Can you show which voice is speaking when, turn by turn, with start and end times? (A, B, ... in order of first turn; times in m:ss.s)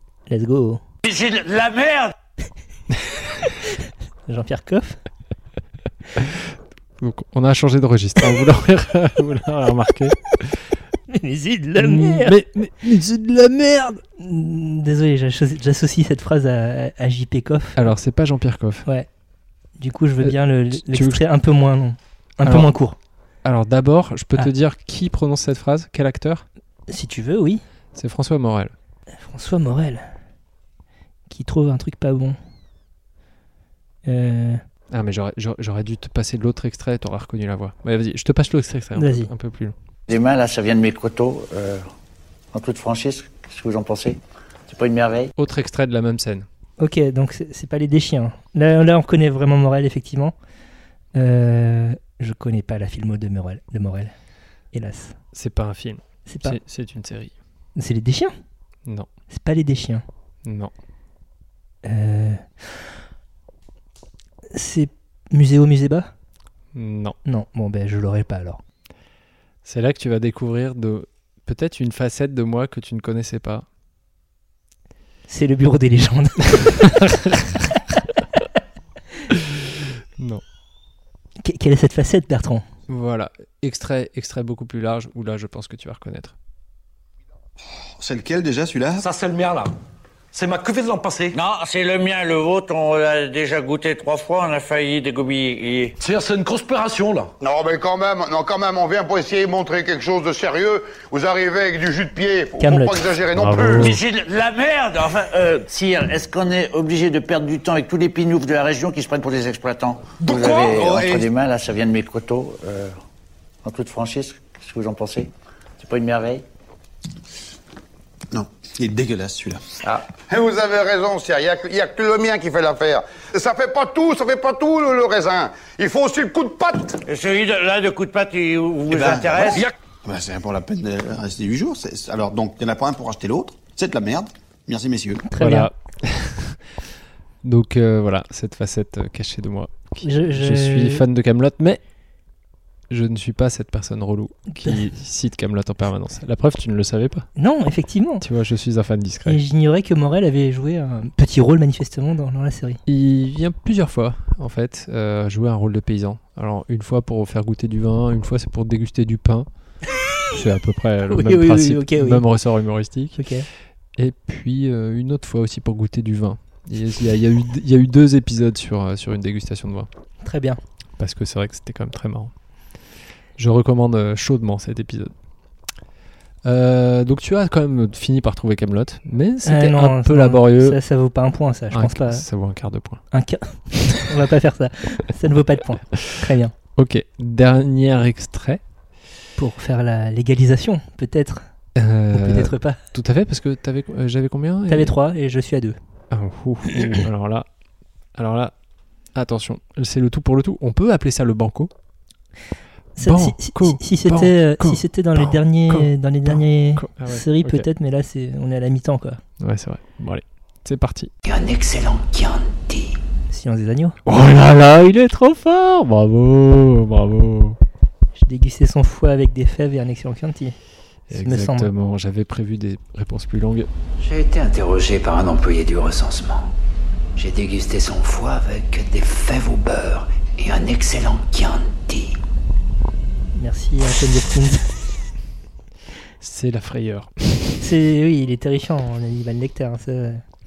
0:00.3-0:00.8 A
0:01.1-0:02.1 B
0:04.3-0:05.0 A
0:06.2-0:06.4 C
0:07.0-0:10.7 C
0:11.1-0:12.4 A
0:11.8-0:14.0 C
0:14.2-0:17.9 A
0:17.8-0:18.9 C
0:19.8-0:23.0 A
0:20.2-0:21.2 C
0:22.4-0:22.7 C
0:23.4-0:26.5 C
0:26.9-0:27.6 A
0:28.0-0:28.7 C
0:29.1-0:30.1 A
0:31.3-0:32.4 A
0:34.0-0:34.6 A
0:34.9-0:39.8 C
0:39.0-0:39.3 A
0:40.1-0:41.9 D
0:42.5-0:45.3 D
0:45.4-0:46.5 C
0:46.8-0:50.4 A
0:51.2-0:54.1 A
0:54.7-0:55.2 A
0:55.3-0:57.3 C
0:56.3-0:56.6 A
0:57.8-0:58.3 A
0:59.3-1:00.0 A
1:00.4-1:00.7 C
1:01.8-1:02.7 A
1:04.5-1:06.1 A
1:06.7-1:07.2 C
1:07.2-1:08.6 A
1:09.6-1:13.7 C
1:15.3-1:17.0 A
1:21.4-1:22.6 A
1:22.9-1:26.4 C
1:28.0-1:29.1 E
1:29.0-1:29.7 F
1:30.3-1:31.4 F
1:31.3-1:36.0 B
1:36.0-1:37.3 F
1:37.4-1:43.9 G
1:42.6-1:43.2 A
1:43.3-1:44.0 C
1:43.8-1:46.3 B
1:45.8-1:53.0 D
1:53.6-1:56.4 D
1:58.3-1:59.7 E
2:00.3-2:07.0 G
2:07.1-2:09.7 B
2:08.9-2:15.2 E
2:15.3-2:15.7 A
2:15.4-2:16.6 C
2:17.4-2:21.8 C
2:20.0-2:21.1 A
2:22.9-2:27.3 C
2:24.5-2:24.8 A
2:27.4-2:28.2 A
2:28.2-2:29.4 C
2:29.2-2:32.8 A
2:32.9-2:39.5 C
2:40.3-2:43.2 C
2:41.1-2:42.2 A
2:43.2-2:43.5 A
2:44.0-2:49.9 C
2:50.2-2:50.6 A
2:51.0-2:52.3 C
2:53.4-2:55.1 C
2:56.4-3:00.8 C
2:59.4-3:02.2 A
3:01.7-3:03.0 C
3:03.1-3:06.6 A
3:06.8-3:08.6 C
3:09.4-3:11.5 A
3:11.8-3:15.0 C
3:12.1-3:12.8 A
3:14.7-3:15.8 A
3:16.1-3:17.5 C
3:18.2-3:18.5 C
3:19.1-3:21.7 C
3:23.0-3:29.2 A
3:23.0-3:27.7 C
3:29.4-3:31.1 C
3:31.3-3:32.9 H
3:33.3-3:34.0 A
3:34.1-3:37.6 C
3:38.2-3:40.6 A
3:41.1-3:43.7 C
3:41.2-3:41.7 A
3:44.0-3:46.4 H
3:47.2-3:52.1 H
3:53.3-3:54.8 A
3:56.2-3:57.6 C
3:57.6-4:00.2 A